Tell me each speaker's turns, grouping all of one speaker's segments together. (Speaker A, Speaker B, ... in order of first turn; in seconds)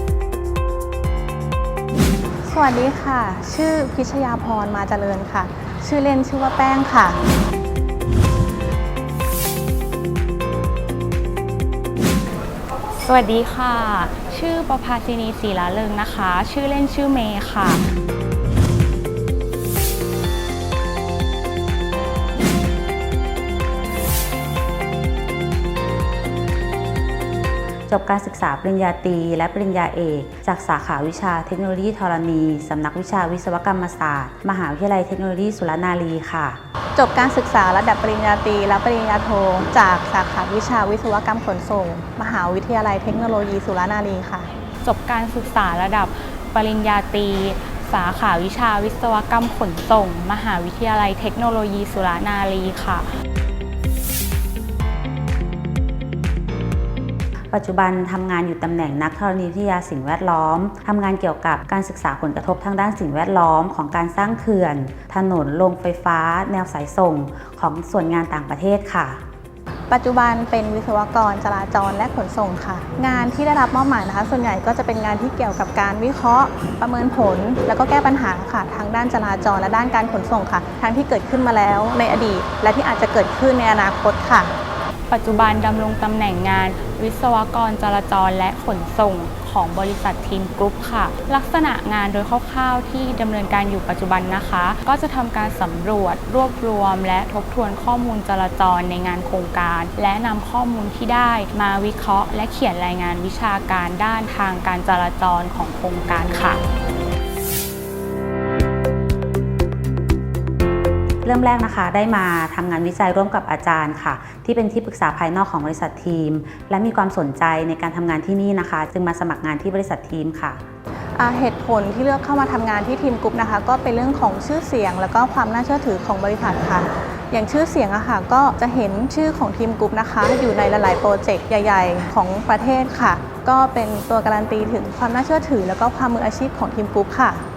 Speaker A: 2.5-7.2, 37.0-44.5, 69.9-84.5, 121.2-137.4
Speaker B: 13.0-17.8, 44.8-53.0, 85.1-106.6
Speaker C: 27.9-36.6, 57.5-69.2, 111.2-120.6